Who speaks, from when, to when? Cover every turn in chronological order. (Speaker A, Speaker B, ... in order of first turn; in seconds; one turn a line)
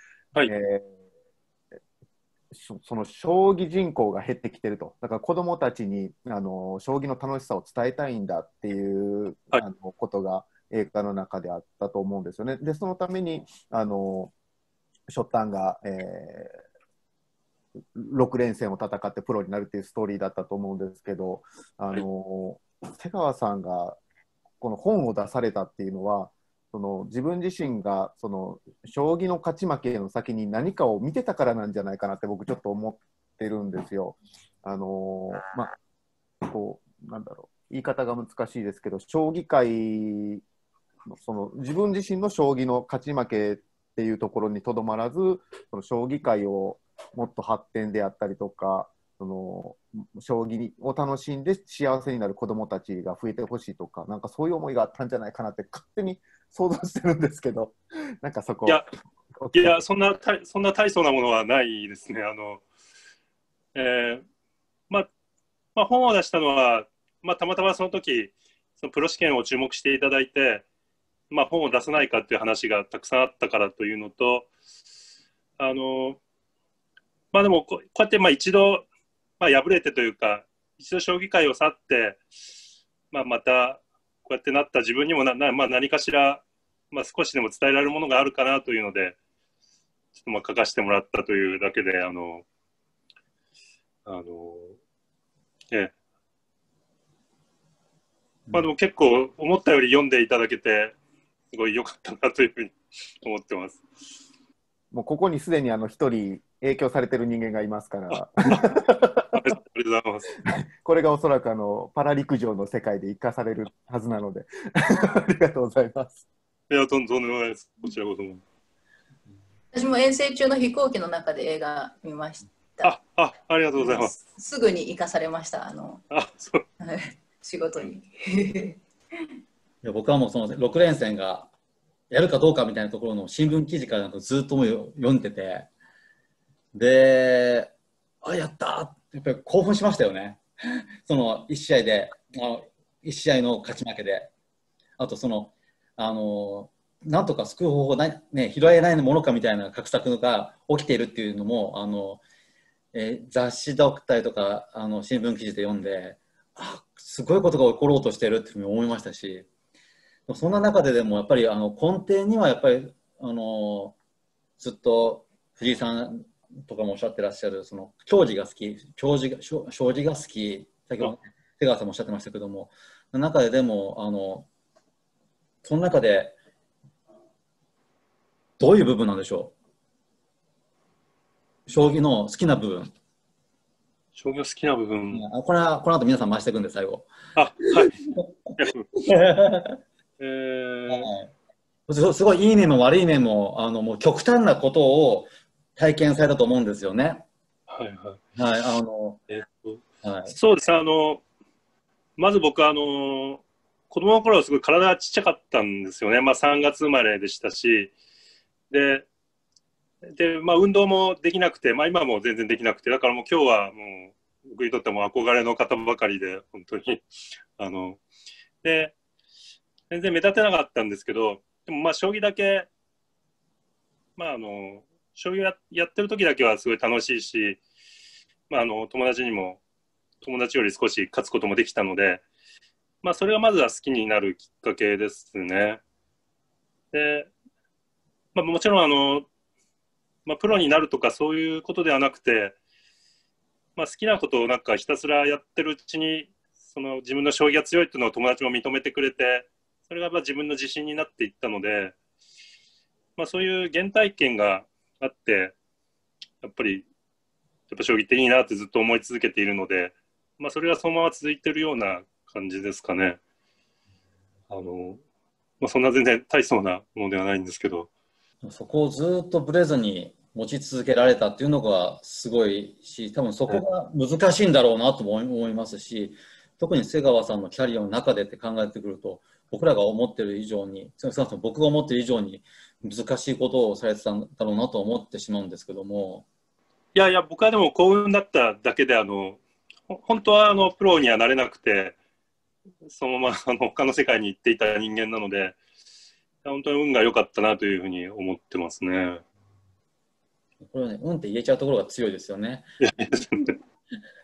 Speaker A: 0.5-0.9
Speaker A: 2.5-14.3
Speaker A: 15.1-16.6
Speaker A: 17.9-24.0
Speaker A: 24.6-35.8
Speaker A: 36.5-40.4
Speaker A: 41.1-58.9
Speaker A: 59.4-59.8
Speaker B: 59.5-62.6
Speaker B: 63.8-64.2
Speaker B: 65.8-70.7
Speaker B: 71.3-74.5
Speaker B: 75.6-76.2
Speaker B: 77.3-78.9
Speaker B: 79.4-82.2
Speaker B: 83.1-89.2
Speaker B: 90.2-92.5
Speaker B: 94.1-94.8
Speaker B: 98.5-101.0
Speaker B: 101.5-103.8
Speaker A: 104.9-109.3
Speaker B: 108.1-108.8
Speaker B: 109.3-110.3
Speaker A: 110.4-116.2
Speaker B: 116.7-118.4
Speaker C: 119.7-123.0
Speaker B: 122.8-124.1
Speaker C: 123.8-126.0
Speaker B: 126.1-126.6
Speaker C: 126.8-128.8
Speaker D: 129.8-131.5
Speaker D: 132.1-135.7
Speaker D: 136.7-140.4
Speaker D: 141.0-144.3
Speaker D: 145.0-152.2
Speaker D: 152.9-159.5
Speaker D: 160.3-164.0
Speaker D: 164.6-174.5
Speaker D: 175.6-176.4
Speaker D: 178.6-179.6
Speaker D: 181.7-182.9
Speaker B: 184.2-185.2
Speaker D: 185.1-187.1
Speaker B: 187.4-187.9
Speaker D: 187.8-189.8
Speaker B: 188.6-188.9
Speaker B: 190.2-191.1
Speaker D: 190.9-191.3
Speaker D: 191.9-197.3
Speaker B: 197.7-198.2
Speaker D: 198.4-199.2
Speaker B: 199.3-201.2
Speaker D: 200.0-200.3
Speaker B: 202.2-207.9
Speaker B: 208.7-209.1
Speaker B: 210.1-217.1
Speaker B: 217.6-218.0
Speaker B: 218.6-218.9
Speaker B: 219.9-222.7
Speaker B: 224.2-227.6
Speaker B: 228.5-229.6
Speaker B: 230.2-232.2
Speaker B: 233.0-235.8
Speaker B: 236.9-237.3
Speaker B: 238.3-239.3
Speaker B: 240.3-242.6
Speaker B: 243.8-252.0
Speaker B: 253.2-255.6
Speaker B: 256.4-256.9
Speaker B: 257.7-263.2
Speaker B: 264.5-265.0
Speaker B: 265.6-267.9
Speaker D: 268.4-286.3
Speaker B: 286.9-292.0
Speaker B: 292.9-295.6
Speaker B: 296.4-299.2
Speaker D: 300.6-302.6
Speaker B: 302.8-303.5